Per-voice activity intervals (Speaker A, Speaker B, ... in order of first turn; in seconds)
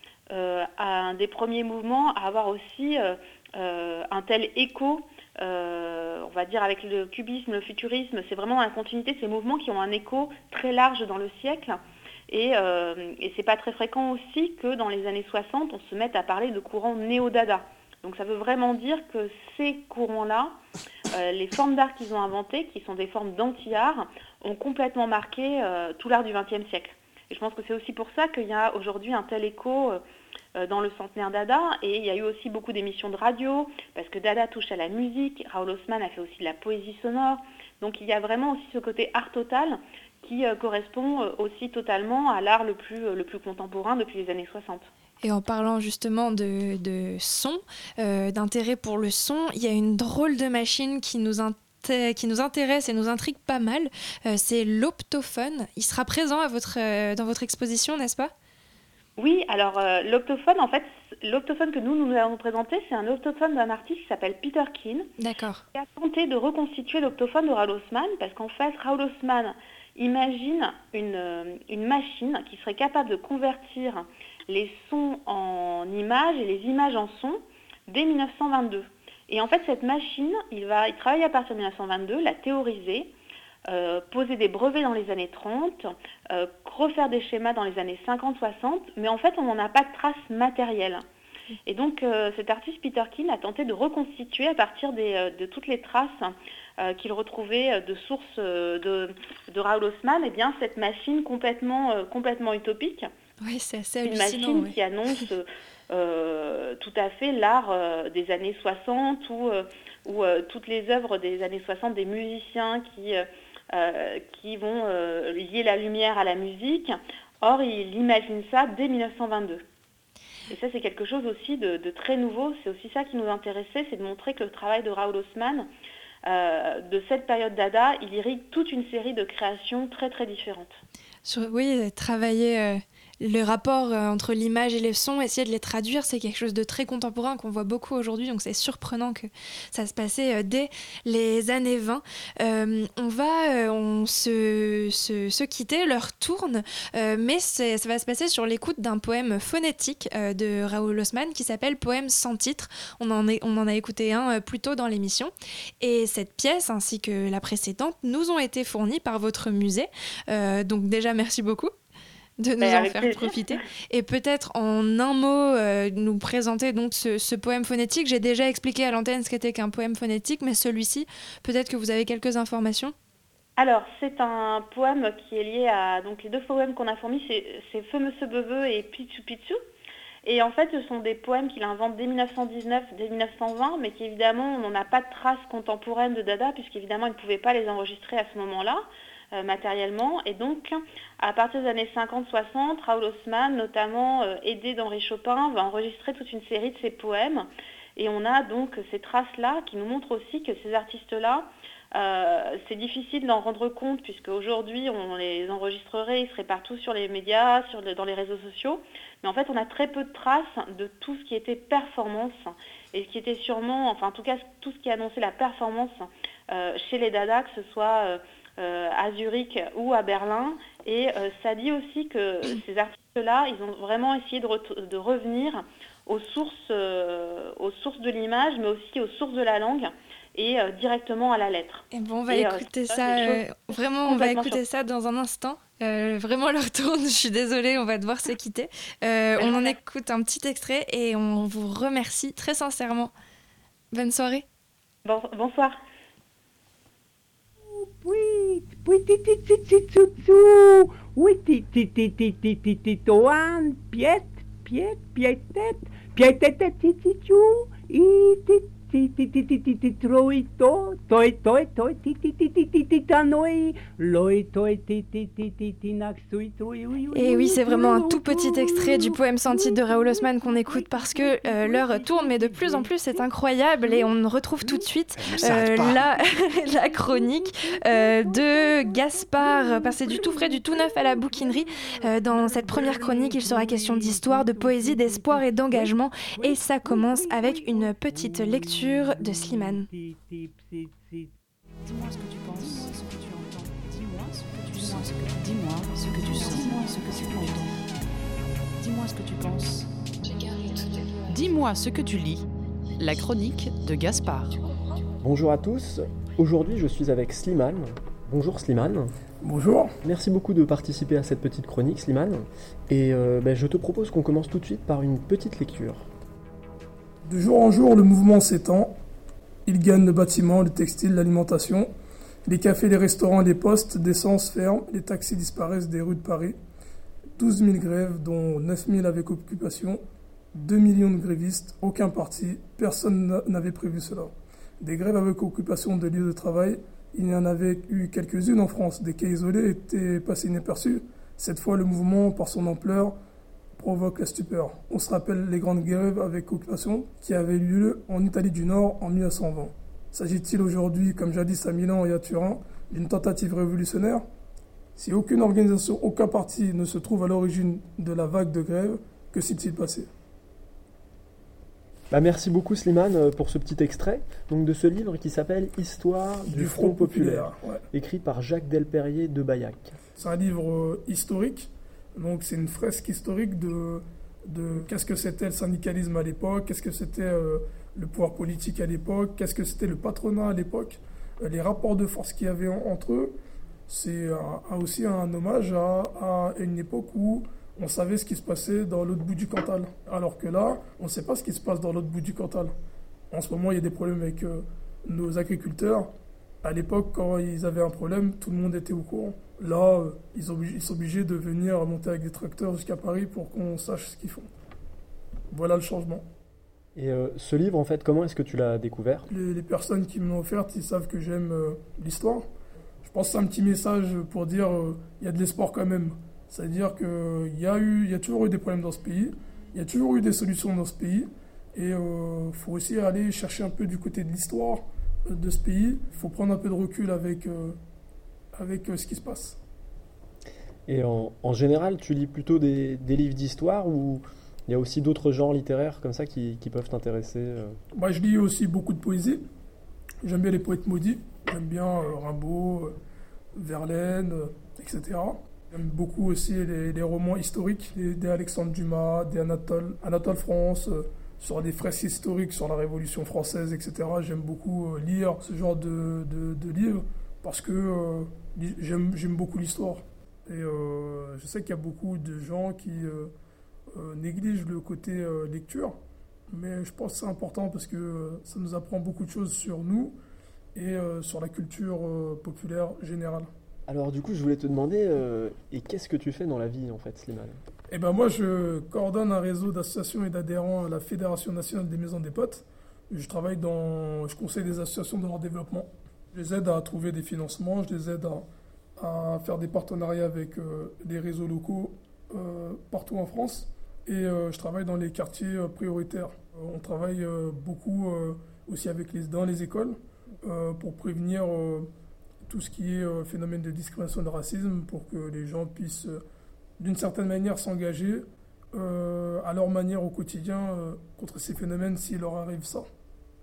Speaker A: 0.3-20.6, 21.1-30.0, 30.5-44.8, 59.2-65.1, 65.7-83.1, 83.7-91.0, 91.7-103.1, 104.0-119.6, 120.5-125.7, 126.2-130.8, 162.6-163.6, 173.6-179.6, 180.2-233.4, 234.0-234.6, 239.4-239.8, 245.1-245.8
Speaker B: 45.2-58.3, 65.2-65.6, 103.4-104.8, 131.2-161.7, 162.4-172.9, 231.9-243.1, 243.9-244.4, 267.1-289.9
Speaker C: 247.7-273.2, 273.8-274.1, 274.6-291.3, 296.4-296.7
Speaker D: 291.8-297.8, 298.8-299.9, 301.3-302.5, 303.0-304.6
Speaker E: 305.2-309.1, 310.0-316.1, 362.1-369.9, 406.9-409.2, 430.9-437.8, 473.9-477.6
Speaker F: 309.4-309.9, 317.2-318.9, 319.7-321.9, 322.4-326.6, 327.4-330.0, 330.5-343.1, 343.8-354.2, 354.9-360.1, 366.5-367.8, 370.1-383.3, 383.9-392.7, 393.3-396.1, 396.6-404.5, 405.5-406.2, 409.3-412.5, 413.0-427.8, 428.5-429.6, 437.9-439.4, 440.2-442.9, 443.6-463.3, 463.9-466.0, 466.5-470.2, 470.7-473.5, 477.9-488.5, 489.0-501.9, 502.4-506.2, 506.8-512.9